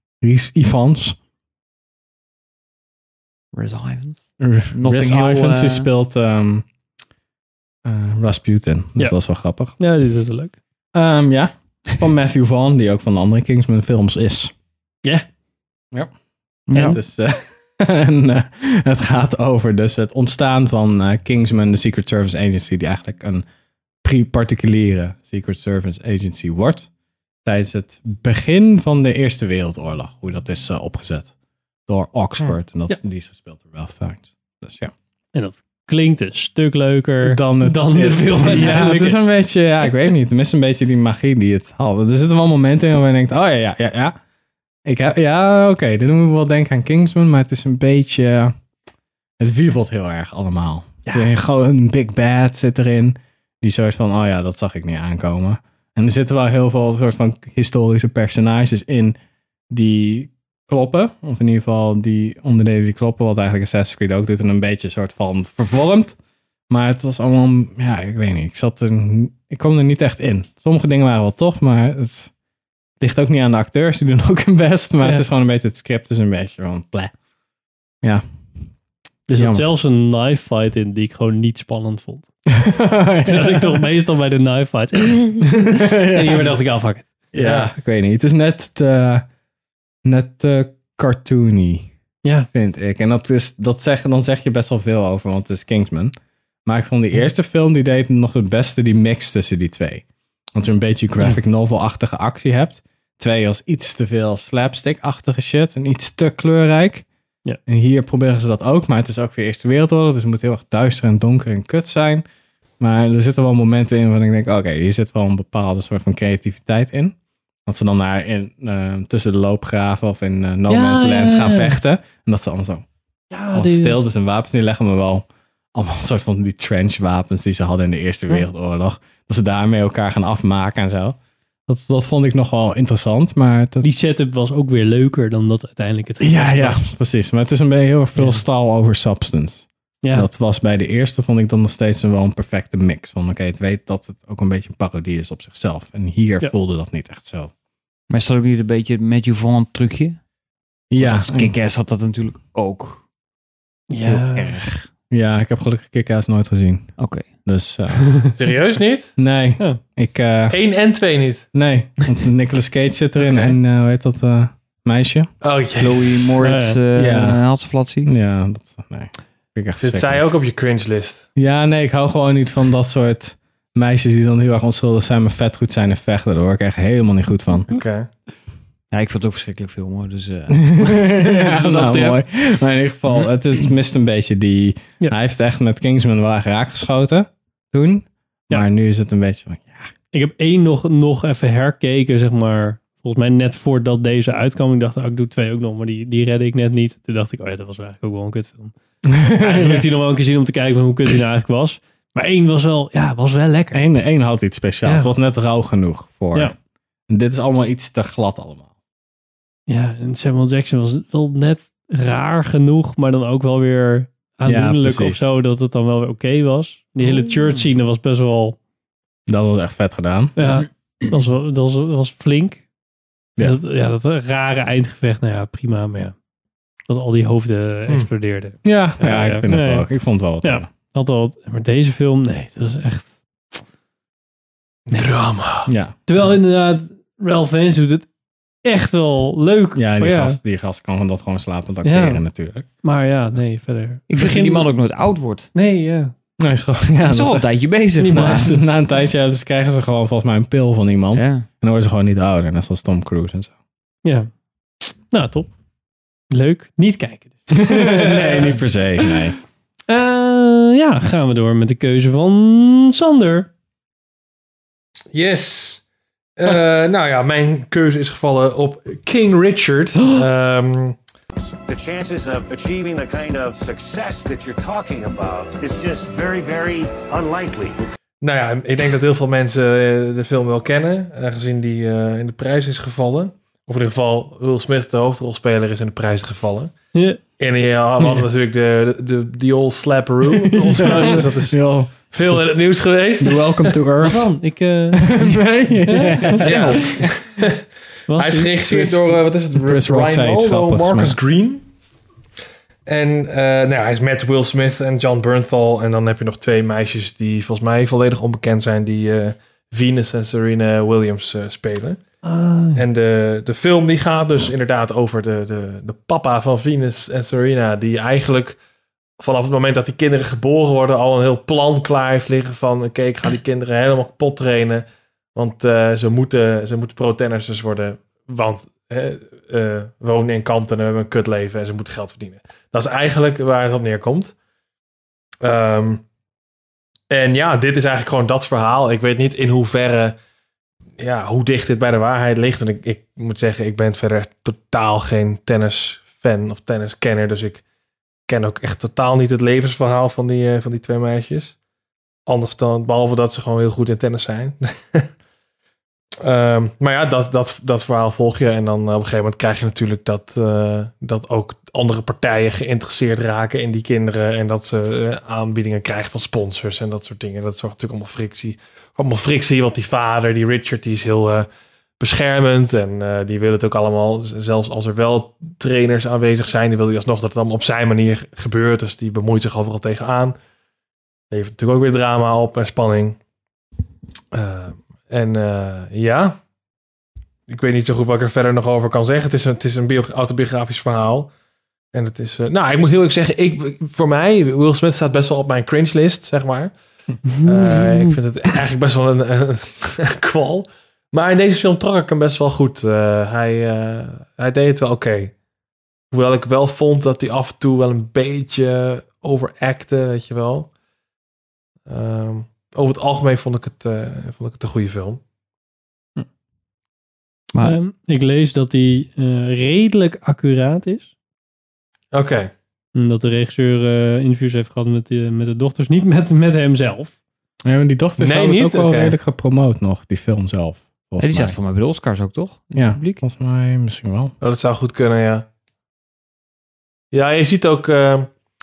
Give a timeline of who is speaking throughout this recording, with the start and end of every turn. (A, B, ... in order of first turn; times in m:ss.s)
0:00.2-0:01.2 A
0:03.5-0:05.9 B
0:04.4-0:06.6 A
0:07.8-0:09.7 A
0:09.8-0:10.6 C
0:10.9-0:14.5 A
0:16.7-0:17.0 B
0:16.7-0:23.4 A
0:24.0-0:26.9 A
0:27.4-0:31.3 A
0:31.9-0:34.9 A
0:35.3-0:39.3 C
0:37.2-0:44.2 A
0:44.8-0:48.6 A
0:49.4-0:59.2 A
0:59.7-1:06.2 A
1:06.7-1:12.3 A
1:13.0-1:17.1 A
1:19.3-1:22.3 C
1:19.4-1:19.6 A
1:22.5-1:23.9 A
1:23.2-1:27.1 C
1:25.5-1:26.6 A
1:27.3-1:29.2 A
1:27.4-1:27.7 D
1:30.0-1:31.9 A
1:32.5-1:36.1 A
1:36.7-1:47.1 A
1:47.7-1:52.2 A
1:52.8-1:57.2 A
1:57.7-2:02.8 A
2:00.7-2:01.8 C
2:03.3-2:04.0 C
2:03.5-2:11.2 A
2:11.7-2:13.9 A
2:13.8-2:16.8 C
2:16.2-2:27.5 A
2:18.2-2:18.4 C
2:20.0-2:20.3 C
2:28.1-2:30.2 B
2:30.9-2:31.6 A
2:31.0-2:33.0 B
2:33.9-2:34.6 C
2:34.1-2:34.8 B
2:35.1-2:38.3 A
2:37.0-2:37.3 B
2:38.4-2:39.1 D
2:39.2-2:40.6 A
2:40.5-2:41.5 D
2:41.5-2:45.3 A
2:43.2-2:43.5 D
2:45.4-2:46.3 D
2:45.8-2:48.1 B
2:46.4-2:46.8 C
2:47.0-2:47.4 A
2:48.0-2:50.2 A
2:49.8-2:51.3 D
2:51.4-2:57.7 A
2:57.7-2:58.1 D
2:58.9-3:02.2 B
3:00.6-3:09.9 A
3:10.1-3:18.7 C
3:19.1-3:19.9 A
3:19.3-3:23.8 C
3:23.7-3:26.6 A
3:24.8-3:25.1 C
3:27.1-3:28.7 A
3:29.7-3:38.6 C
3:34.4-3:35.3 A
3:39.3-3:40.3 A
3:40.4-3:42.6 C
3:43.4-3:46.1 C
3:46.9-3:49.9 C
3:48.6-3:50.7 A
3:50.4-3:53.6 C
3:54.9-3:55.7 D
3:55.7-3:56.0 A
3:56.1-3:58.1 C
3:58.6-4:00.4 C
3:59.8-4:02.7 A
4:01.8-4:02.2 C
4:02.8-4:04.7 C
4:04.1-4:05.5 B
4:05.6-4:06.1 C
4:06.4-4:07.5 A
4:07.1-4:08.5 B
4:08.0-4:08.6 C
4:08.1-4:13.5 A
4:11.1-4:11.4 B
4:14.8-4:15.5 C
4:16.3-4:19.2 C
4:17.6-4:19.4 A
4:19.9-4:23.5 C
4:25.1-4:25.8 D
4:26.4-4:31.0 D
4:31.7-4:37.8 E
4:38.2-4:46.7 D
4:46.9-4:47.2 C
4:47.4-4:51.6 D
4:50.3-4:52.5 A
4:50.8-4:51.2 C
4:52.1-4:53.6 D
4:53.2-4:54.3 A
4:54.0-4:56.4 C
4:54.9-4:56.9 A
4:56.4-4:57.5 D
4:58.1-4:59.0 C
4:58.1-5:01.7 D
4:58.7-4:59.0 A
4:59.6-5:01.2 A
5:02.9-5:12.0 D
5:12.2-5:12.8 C
5:12.8-5:18.6 D
5:19.2-5:34.3 D
5:35.4-5:36.0 D
5:37.1-5:40.2 D
5:41.0-5:47.6 D
5:48.3-5:51.6 D
5:52.3-5:55.1 D
5:56.2-6:11.5 D
6:12.0-6:20.4 D
6:21.3-6:23.2 D
6:24.3-6:26.4 D
6:27.5-6:31.3 D
6:31.9-6:36.7 D
6:37.3-6:37.9 C
6:37.4-6:45.4 D
6:46.1-6:50.7 D
6:51.9-6:55.2 D
6:57.6-7:01.1 C
7:02.1-7:02.5 D
7:03.0-7:07.1 C
7:07.6-7:11.6 A
7:08.2-7:09.2 D
7:11.2-7:13.2 B
7:12.7-7:14.3 A
7:14.4-7:15.5 D
7:17.1-7:18.3 D